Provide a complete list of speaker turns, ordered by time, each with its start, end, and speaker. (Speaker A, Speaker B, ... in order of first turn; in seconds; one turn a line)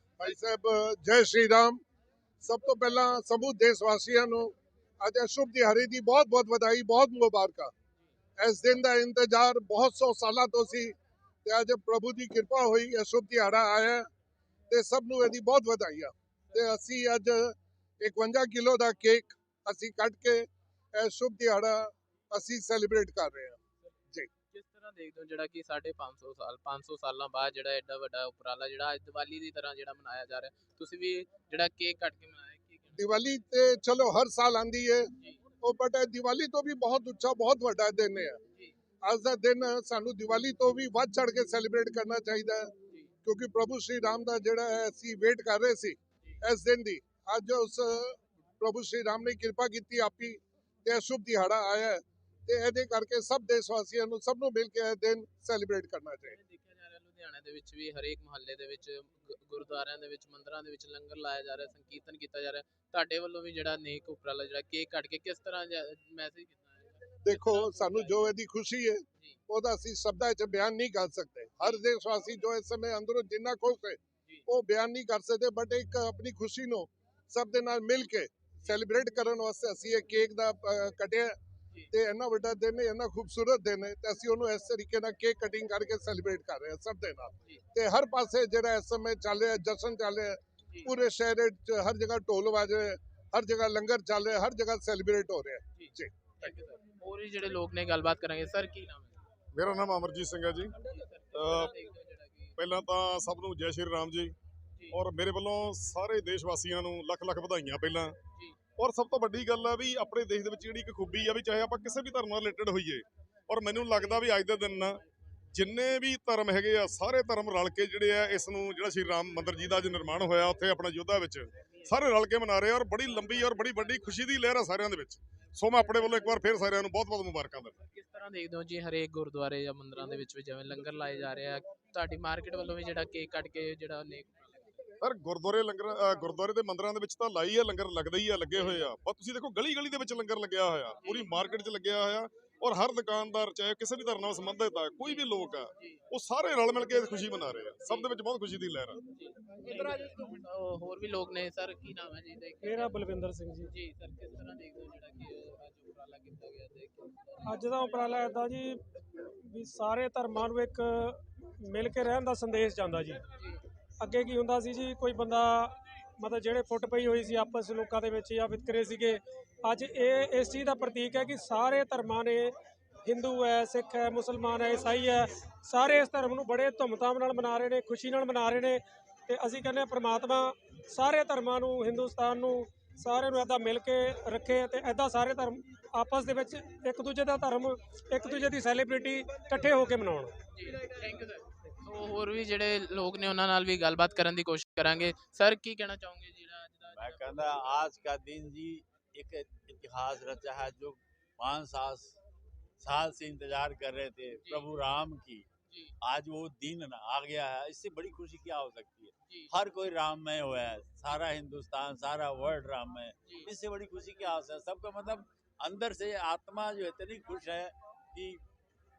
Speaker A: 0.2-1.8
Speaker A: 2.4-7.7
Speaker A: 8.4-10.9
Speaker A: 11.4-14.1
Speaker A: 14.7-23.6
Speaker B: 24.5-33.0
Speaker A: 33.0-35.1
Speaker A: 35.6-38.4
Speaker A: 39.0-42.7
Speaker A: 43.2-56.4
Speaker B: 56.3-68.3
Speaker A: 67.2-81.4
Speaker A: 81.9-96.5
Speaker B: 95.8-99.2
Speaker C: 99.5-100.7
Speaker B: 100.8-102.6
Speaker C: 101.3-101.7
Speaker C: 102.6-104.4
Speaker C: 104.9-108.1
Speaker C: 108.8-115.0
Speaker B: 114.0-114.3
Speaker C: 115.5-127.8
Speaker B: 127.9-134.7
Speaker C: 135.0-149.0
Speaker B: 138.6-138.8
Speaker B: 141.0-141.3
Speaker B: 145.1-146.0
Speaker B: 149.1-153.1
Speaker D: 152.6-153.7
Speaker B: 153.6-158.4
Speaker D: 157.5-163.2
Speaker B: 163.3-163.6
Speaker D: 164.0-190.3
Speaker B: 190.5-197.6
Speaker E: 196.9-202.2
Speaker E: 202.8-205.5
Speaker B: 205.7-205.9
Speaker E: 206.0-218.4
Speaker B: 209.3-209.5
Speaker B: 213.2-213.5